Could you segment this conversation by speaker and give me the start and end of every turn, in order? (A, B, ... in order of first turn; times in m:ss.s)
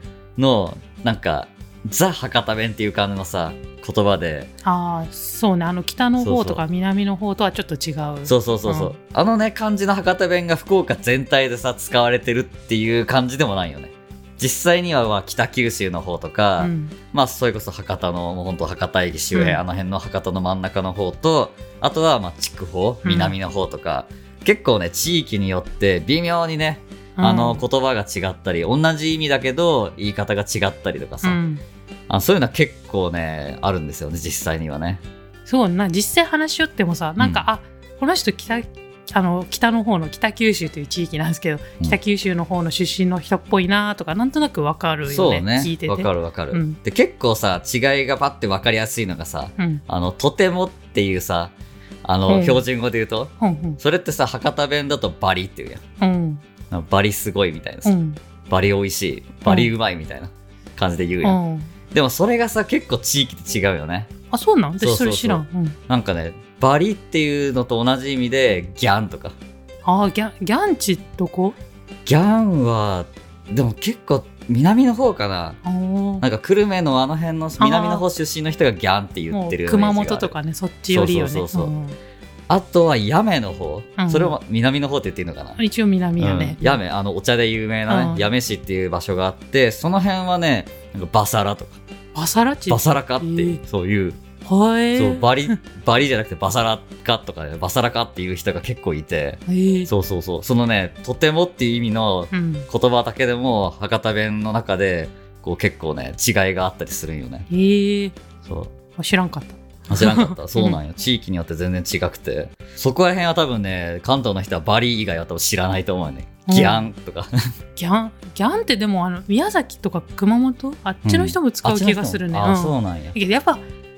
0:00.4-0:04.5 A
0:04.6-0:08.9 B
0:06.2-0:06.6 A
0:08.2-0:31.4 A
0:16.6-0:16.9 B
0:19.3-0:19.6 B
0:23.0-0:23.4 B
0:27.2-0:27.6 B
0:31.2-0:31.6 B
0:32.1-0:35.0 A
0:35.5-0:46.8 B
0:37.2-0:37.4 A
0:45.1-0:51.5 A
0:49.6-0:49.8 B
0:52.0-0:55.8 A
0:52.3-0:52.6 B
0:53.4-0:53.8 B
0:56.0-0:56.4 B
0:56.7-0:57.9 A
0:57.8-0:58.2 B
0:58.5-1:01.4 A
0:59.4-0:59.7 B
1:01.2-1:01.7 B
1:01.9-1:04.1 A
1:04.3-1:05.8 B
1:04.8-1:09.4 A
1:09.8-1:11.6 B
1:12.0-1:15.6 A
1:15.6-1:16.2 B
1:16.2-1:20.3 A
1:17.6-1:18.0 B
1:19.3-1:22.0 B
1:20.9-1:21.7 A
1:22.5-1:25.6 A
1:24.0-1:24.4 B
1:25.6-1:26.8 B
1:26.2-1:31.8 A
1:27.9-1:28.3 B
1:32.1-1:33.6 B
1:32.7-1:34.2 A
1:34.4-1:35.6 B
1:35.0-1:47.5 A
1:39.5-1:39.9 B
1:42.3-1:42.7 B
1:47.5-1:48.1 B
1:48.4-1:48.7 A
1:49.0-1:50.8 B
1:49.9-1:57.3 A
1:56.5-1:56.8 B
1:57.8-2:03.6 B
2:01.0-2:03.2 A